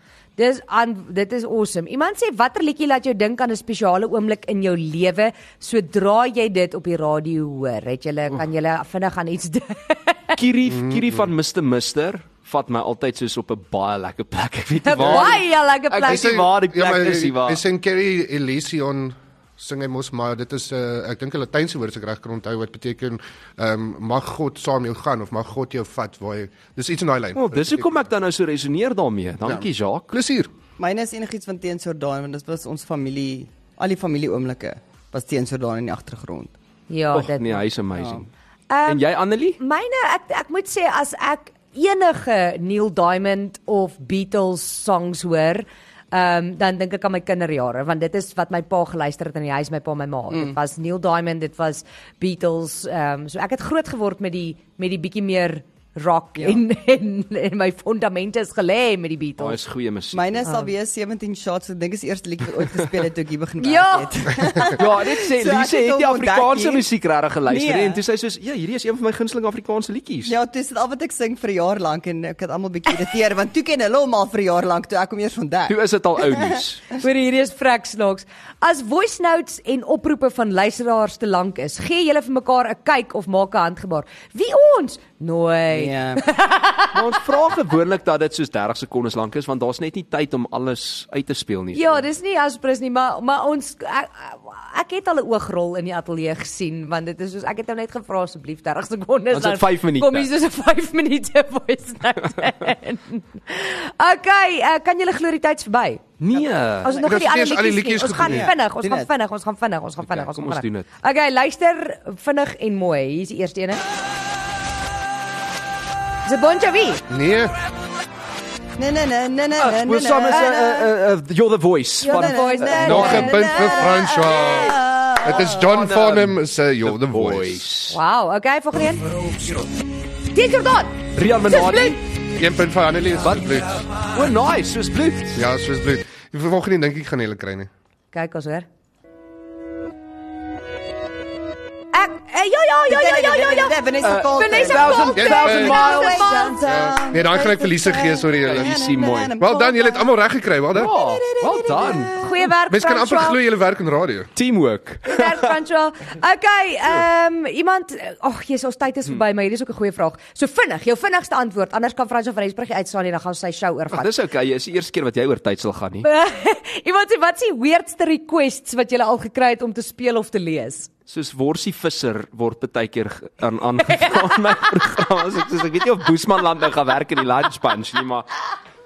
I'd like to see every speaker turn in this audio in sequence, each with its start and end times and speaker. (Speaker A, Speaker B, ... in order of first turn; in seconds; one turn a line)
Speaker A: 0.4-10.4
Speaker B: 10.3-17.6
Speaker C: 10.7-11.2
Speaker A: 14.8-16.5
Speaker C: 15.0-15.3
Speaker C: 16.1-28.0
Speaker B: 27.4-30.1
Speaker C: 29.4-30.5
Speaker D: 30.8-36.5
Speaker A: 36.9-37.6
Speaker B: 37.1-38.3
Speaker D: 38.0-38.2
Speaker A: 38.7-59.6
Speaker B: 38.9-39.6
Speaker D: 50.3-50.5
Speaker B: 59.4-60.4
Speaker D: 60.1-66.8
Speaker A: 60.4-60.7
Speaker A: 63.6-64.7
Speaker B: 64.7-70.3
Speaker D: 67.5-68.0
Speaker D: 70.3-76.6
Speaker B: 75.7-77.0
Speaker A: 77.0-87.0
Speaker D: 85.7-86.2
Speaker B: 86.9-92.0
Speaker A: 91.7-106.1
Speaker B: 99.3-100.3
Speaker B: 106.2-106.9
Speaker A: 106.8-113.8
Speaker C: 106.9-108.5
Speaker D: 108.2-109.1
Speaker B: 110.0-110.8
Speaker A: 116.2-117.0
Speaker C: 117.1-117.5
Speaker D: 118.8-120.9
Speaker B: 119.6-123.4
Speaker A: 120.3-120.7
Speaker A: 122.0-124.8
Speaker D: 122.0-125.6
Speaker C: 122.8-127.6
Speaker B: 125.6-128.0
Speaker A: 127.9-129.1
Speaker A: 130.3-132.0
Speaker B: 131.1-132.0
Speaker C: 132.4-133.7
Speaker B: 133.2-135.4
Speaker C: 135.3-137.7
Speaker A: 138.1-138.7
Speaker A: 141.9-146.6
Speaker D: 142.9-150.1
Speaker B: 144.0-146.5
Speaker C: 145.2-145.9
Speaker C: 146.6-150.9
Speaker B: 148.4-149.3
Speaker D: 150.7-152.3
Speaker B: 150.7-152.2
Speaker A: 152.2-153.4
Speaker C: 152.7-154.3
Speaker B: 154.3-155.5
Speaker A: 155.1-164.1
Speaker B: 163.9-166.1
Speaker A: 166.0-170.9
Speaker B: 171.1-178.3
Speaker A: 173.8-174.8